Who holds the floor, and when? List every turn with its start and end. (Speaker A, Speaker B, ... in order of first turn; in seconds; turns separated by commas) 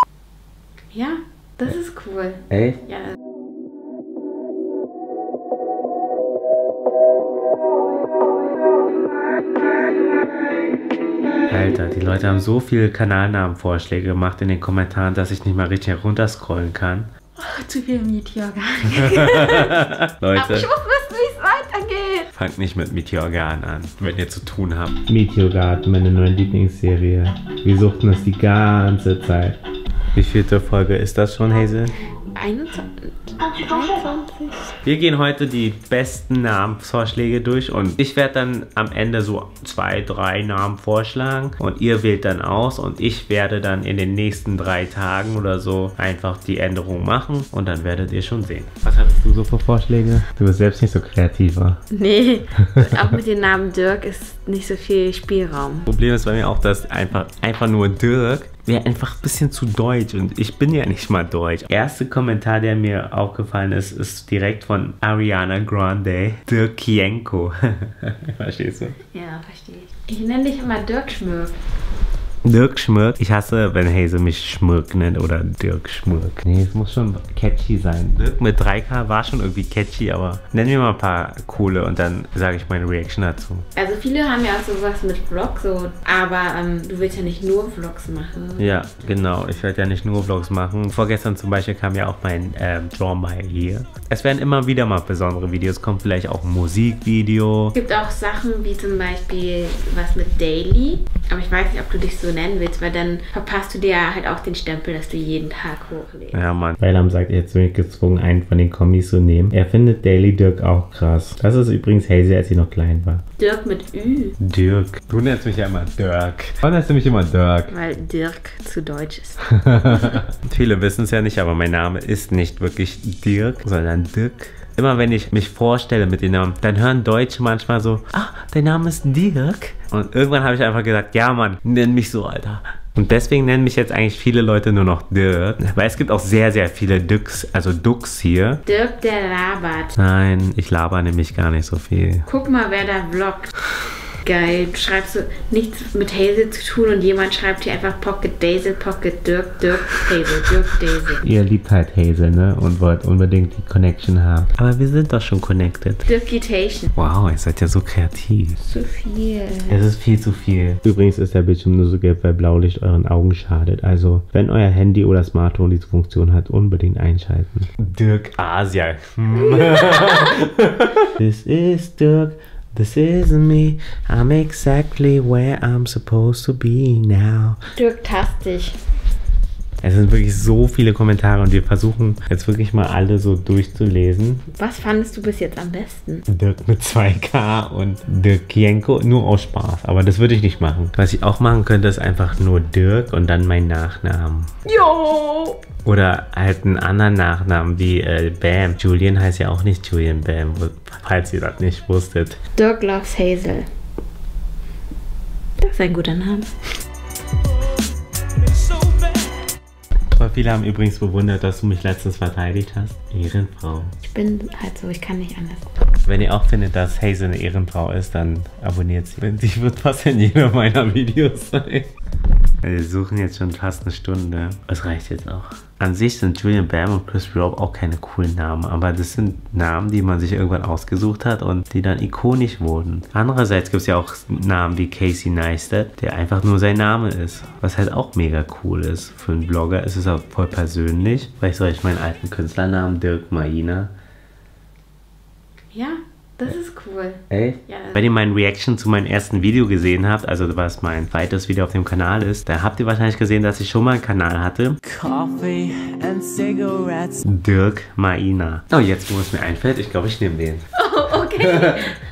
Speaker A: 0.9-3.1, Speaker B: 2.5-2.8, Speaker B: 11.5-17.1, Speaker A: 17.4-19.8, Speaker B: 19.0-20.7, Speaker A: 20.3-22.3, Speaker B: 22.3-29.6, Speaker B: 30.1-32.0, Speaker A: 32.3-34.7, Speaker B: 34.8-51.8, Speaker A: 51.9-55.9, Speaker B: 52.6-53.2, Speaker B: 55.9-69.0, Speaker A: 69.1-71.6, Speaker B: 72.4-83.7, Speaker A: 83.7-88.8, Speaker B: 88.6-97.7, Speaker A: 97.7-106.4, Speaker B: 106.3-113.2, Speaker A: 113.4-114.4, Speaker B: 114.4-117.7, Speaker A: 117.7-120.2, Speaker B: 119.5-138.6, Speaker A: 138.6-139.9, Speaker B: 139.9-142.3, Speaker A: 142.2-143.5, Speaker A: 144.2-151.2, Speaker B: 151.2-156.0, Speaker A: 156.0-156.9, Speaker B: 156.9-158.6, Speaker A: 158.6-159.8, Speaker B: 159.7-177.6, Speaker A: 169.4-170.4, Speaker A: 177.7-178.8, Speaker B: 179.8-184.5, Speaker A: 184.5-186.2, Speaker B: 186.3-194.5, Speaker A: 194.6-195.6, Speaker B: 195.8-202.4, Speaker A: 202.6-203.7, Speaker A: 205.6-206.5, Speaker B: 210.1-213.9, Speaker A: 214.0-215.7, Speaker B: 216.0-221.9, Speaker B: 222.6-243.9, Speaker A: 245.7-248.0, Speaker B: 247.3-254.8, Speaker C: 254.8-257.2, Speaker B: 257.2-260.6, Speaker A: 260.7-261.9, Speaker B: 261.3-261.9